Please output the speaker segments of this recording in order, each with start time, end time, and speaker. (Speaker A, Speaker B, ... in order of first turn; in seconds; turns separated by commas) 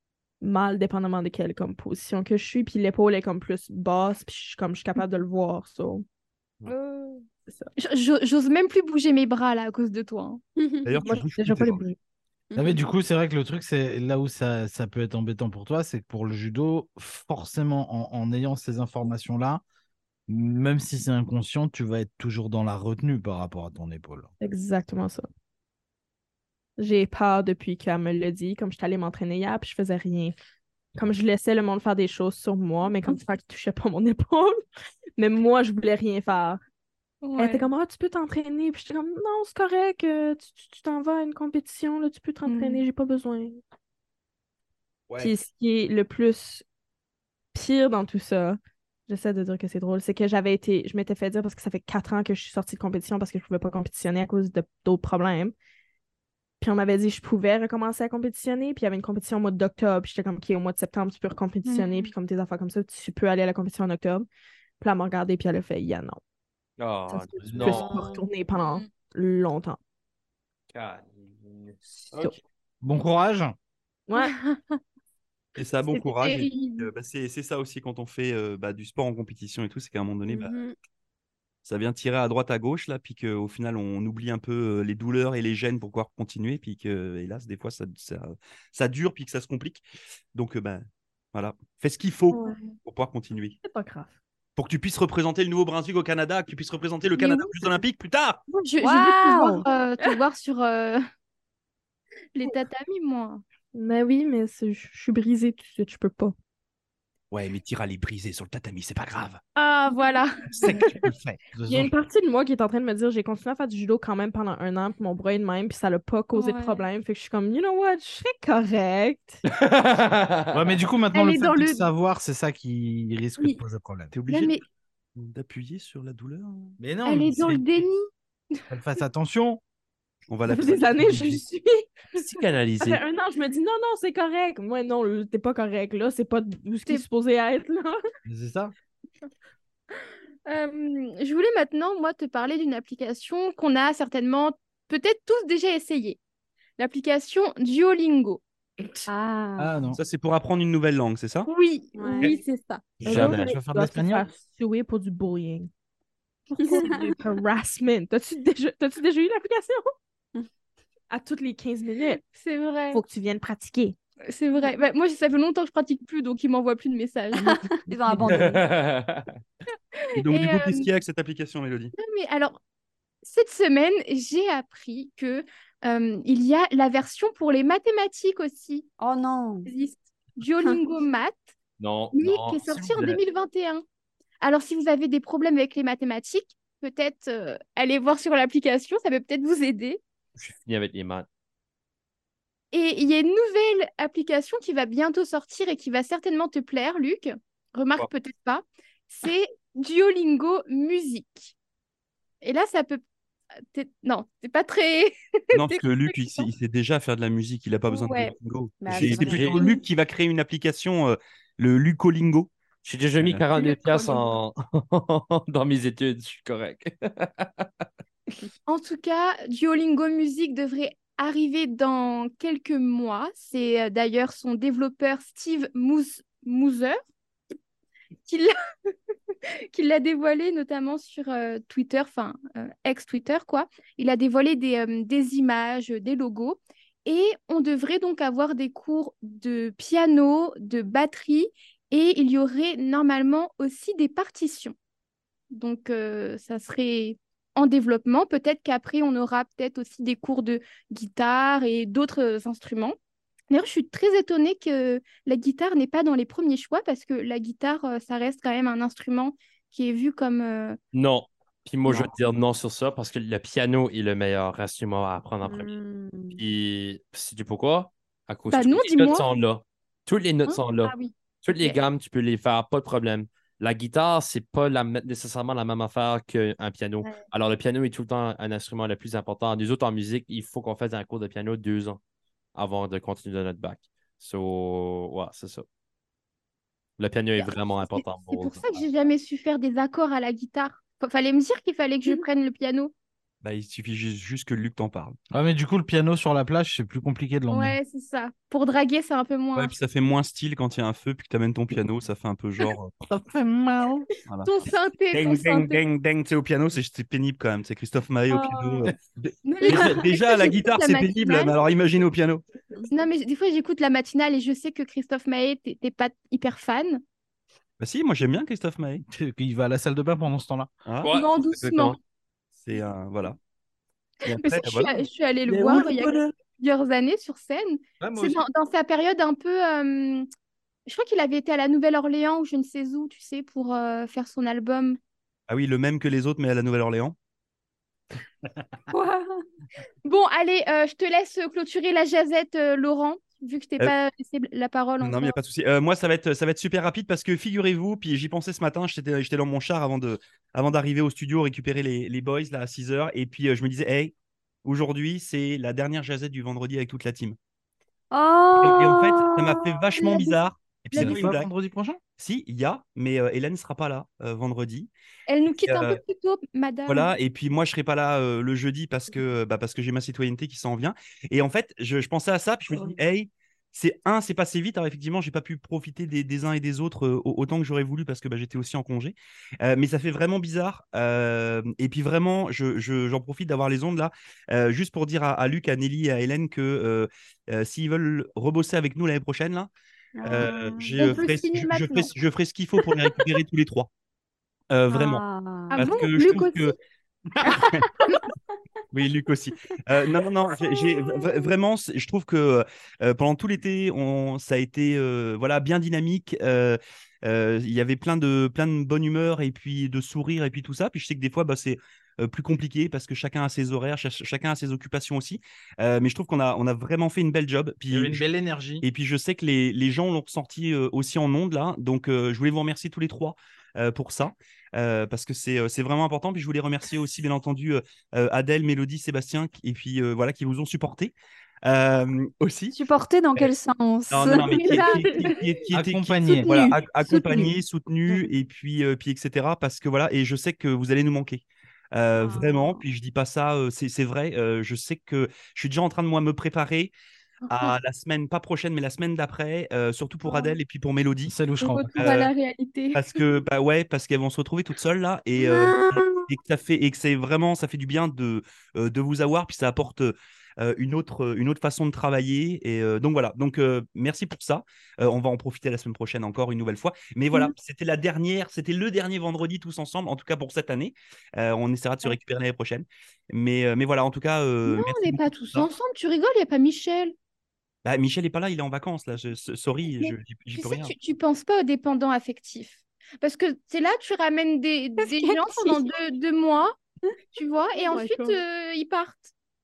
Speaker A: 0.4-6.0, Speaker B: 6.7-7.2, Speaker A: 7.5-7.7, Speaker C: 7.8-10.4, Speaker B: 10.6-11.0, Speaker D: 10.8-11.8, Speaker A: 11.0-11.9, Speaker B: 12.5-12.9, Speaker E: 12.6-19.6, Speaker E: 20.3-24.3, Speaker A: 24.4-25.2, Speaker A: 26.8-30.3, Speaker A: 30.9-34.6, Speaker A: 35.2-36.6, Speaker C: 37.2-37.7, Speaker A: 37.4-43.6, Speaker C: 42.5-42.8, Speaker D: 45.1-45.3, Speaker A: 45.2-46.6, Speaker A: 47.5-55.5, Speaker A: 56.6-64.3, Speaker C: 61.6-62.1, Speaker A: 64.8-66.2, Speaker F: 66.8-68.1, Speaker A: 67.1-69.8, Speaker E: 67.4-67.9, Speaker B: 67.8-68.2, Speaker C: 68.5-68.9, Speaker F: 70.7-72.3, Speaker E: 72.8-73.5, Speaker C: 74.2-74.8, Speaker D: 75.6-80.5, Speaker C: 75.9-76.9, Speaker B: 80.2-80.7, Speaker D: 81.6-89.8, Speaker D: 90.3-90.8, Speaker D: 91.3-93.6, Speaker A: 93.6-94.1, Speaker D: 94.5-98.4, Speaker C: 97.2-97.5, Speaker C: 98.5-101.0, Speaker B: 98.8-99.6, Speaker A: 99.3-100.2, Speaker C: 102.3-103.4, Speaker A: 103.7-106.3, Speaker D: 107.3-109.4, Speaker C: 109.5-110.7, Speaker D: 110.5-111.5, Speaker A: 110.6-110.9, Speaker E: 111.5-111.9, Speaker A: 111.7-119.4, Speaker C: 116.3-116.8, Speaker F: 119.5-120.8, Speaker E: 120.5-124.1, Speaker C: 121.1-121.9, Speaker D: 124.1-124.5, Speaker C: 124.3-124.6, Speaker D: 125.2-126.8, Speaker E: 126.8-127.8, Speaker C: 127.0-128.6, Speaker E: 128.7-129.6, Speaker D: 130.3-131.4, Speaker A: 130.5-131.9, Speaker F: 132.1-133.0, Speaker A: 132.8-138.0, Speaker E: 138.3-138.7, Speaker C: 140.4-146.2, Speaker C: 146.8-148.4, Speaker B: 149.1-149.7, Speaker E: 149.6-150.0, Speaker D: 150.0-151.5, Speaker C: 151.4-152.8, Speaker B: 151.9-152.3, Speaker F: 153.0-153.4, Speaker A: 153.0-155.7, Speaker E: 153.1-154.3, Speaker A: 156.5-159.8, Speaker B: 156.7-157.1, Speaker A: 161.1-162.2, Speaker C: 162.2-163.0, Speaker A: 162.9-164.0, Speaker C: 164.2-167.6, Speaker B: 167.3-168.7, Speaker F: 168.2-169.3, Speaker D: 170.1-171.9, Speaker C: 170.2-170.9, Speaker C: 171.9-172.6, Speaker C: 173.2-178.9, Speaker B: 179.0-179.7, Speaker C: 179.7-181.5, Speaker F: 181.8-183.2, Speaker C: 182.1-183.8, Speaker C: 184.4-190.0, Speaker F: 190.3-191.2, Speaker C: 192.7-201.5, Speaker C: 202.4-203.0, Speaker C: 203.7-206.5, Speaker D: 205.5-212.5, Speaker C: 207.9-209.8, Speaker A: 208.8-209.2, Speaker F: 208.9-209.6, Speaker F: 212.8-217.8, Speaker C: 213.6-214.3, Speaker C: 218.7-227.0, Speaker C: 228.3-228.5, Speaker C: 229.7-244.8, Speaker C: 245.5-253.0, Speaker C: 253.5-260.8, Speaker F: 260.9-265.7, Speaker B: 265.4-266.4, Speaker F: 266.3-282.0, Speaker C: 268.5-269.2, Speaker C: 270.4-271.8, Speaker F: 282.5-285.6, Speaker F: 287.0-288.9, Speaker C: 287.4-292.9, Speaker D: 293.4-295.1, Speaker E: 295.3-297.8, Speaker C: 297.5-299.7, Speaker D: 299.5-302.9, Speaker E: 303.0-304.1, Speaker C: 304.4-305.8, Speaker D: 305.1-312.4, Speaker C: 308.3-308.9, Speaker C: 309.4-311.6, Speaker C: 312.9-317.0, Speaker D: 317.8-319.0, Speaker E: 319.0-320.7, Speaker D: 320.8-321.1, Speaker F: 321.0-322.0, Speaker C: 321.1-322.0, Speaker D: 322.5-323.4, Speaker D: 324.2-324.9, Speaker C: 324.3-330.3, Speaker F: 325.5-326.1, Speaker E: 328.0-328.4, Speaker C: 330.9-335.0, Speaker D: 335.5-337.1, Speaker B: 338.9-339.4, Speaker C: 340.0-345.4, Speaker D: 345.0-354.1, Speaker D: 354.6-357.4, Speaker B: 358.1-360.3, Speaker D: 358.6-361.5, Speaker C: 360.9-361.3, Speaker E: 360.9-362.0, Speaker D: 362.2-364.9, Speaker C: 365.3-367.1, Speaker D: 365.6-366.0, Speaker D: 366.9-389.7, Speaker B: 390.1-391.2, Speaker D: 390.2-393.9, Speaker C: 391.0-392.1, Speaker D: 394.7-396.7, Speaker B: 394.9-396.4, Speaker C: 395.7-396.7, Speaker D: 398.9-418.2, Speaker E: 417.9-418.8, Speaker D: 418.8-432.8, Speaker B: 432.7-435.1, Speaker D: 434.1-446.9, Speaker C: 434.3-435.5, Speaker E: 435.7-436.8, Speaker B: 436.4-438.2, Speaker B: 442.2-442.8, Speaker C: 447.4-447.7, Speaker D: 447.5-451.3, Speaker E: 451.3-452.2, Speaker C: 451.6-453.2, Speaker D: 452.0-452.3, Speaker D: 452.9-475.7, Speaker B: 455.4-456.3, Speaker C: 474.6-477.1, Speaker D: 477.8-480.9, Speaker C: 480.0-486.8, Speaker B: 485.0-485.9, Speaker C: 487.3-489.3, Speaker B: 487.9-488.4